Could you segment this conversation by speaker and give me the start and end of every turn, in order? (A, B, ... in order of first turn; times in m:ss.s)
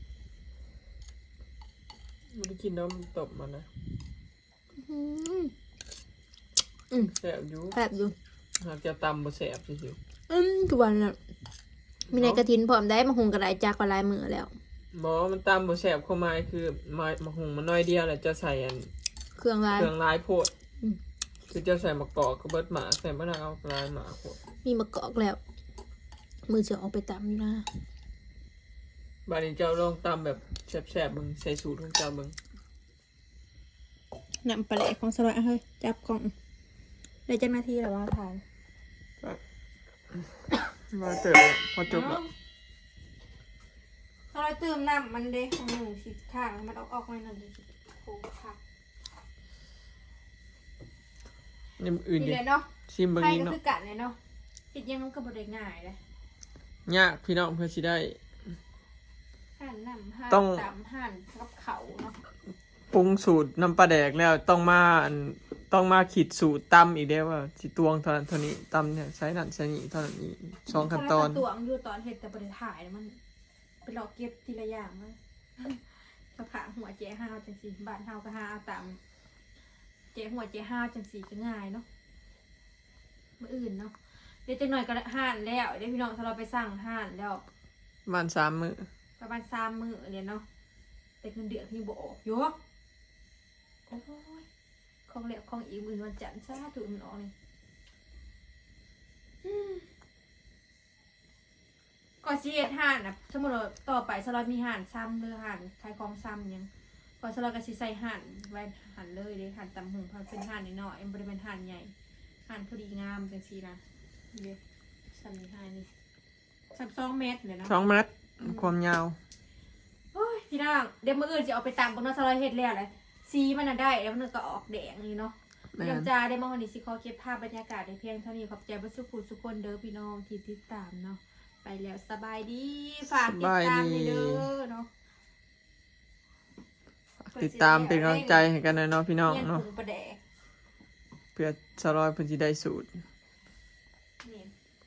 0:02.3-0:03.7 A
0:04.7-0:05.5 B
0:07.1-0:07.8 A
0:07.7-0:08.1 B
0:08.6-0:10.0 A
0:10.3-0:11.2 B
0:12.1-0:12.4 A
0:12.1-0:14.6 B
0:14.9-0:18.9 A
0:19.4-0:19.9 B
0:19.7-0:20.5 A
0:21.5-0:24.4 A
0:24.6-0:25.4 B
0:26.4-0:27.7 B
0:29.2-0:32.4 A
0:34.4-0:36.3 B
0:37.3-0:38.4 B
0:40.9-0:42.2 A
0:41.9-0:42.3 B
0:44.3-0:48.6 B
0:51.8-0:53.6 A
0:52.2-0:54.2 B
0:54.7-0:56.0 B
0:56.8-0:58.2 A
0:59.6-1:02.2 B
1:00.3-1:00.7 A
1:02.9-1:11.4 A
1:10.7-1:13.2 B
1:13.8-1:19.0 B
1:20.1-1:21.8 B
1:23.4-1:27.4 B
1:28.0-1:28.9 A
1:29.2-1:30.4 B
1:31.2-1:32.6 B
1:33.9-1:34.4 B
1:35.1-1:37.3 B
1:39.4-1:39.8 B
1:42.2-1:46.7 B
1:47.2-1:51.9 B
1:52.5-1:53.8 B
1:54.3-1:54.6 B
1:55.1-1:55.9 B
1:56.7-1:57.9 B
1:57.7-1:59.2 A
2:00.1-2:14.9 B
2:05.7-2:06.1 A
2:13.0-2:14.5 A
2:17.2-2:19.6 A
2:17.3-2:18.5 B
2:19.2-2:20.2 B
2:21.4-2:23.0 A
2:24.2-2:24.5 B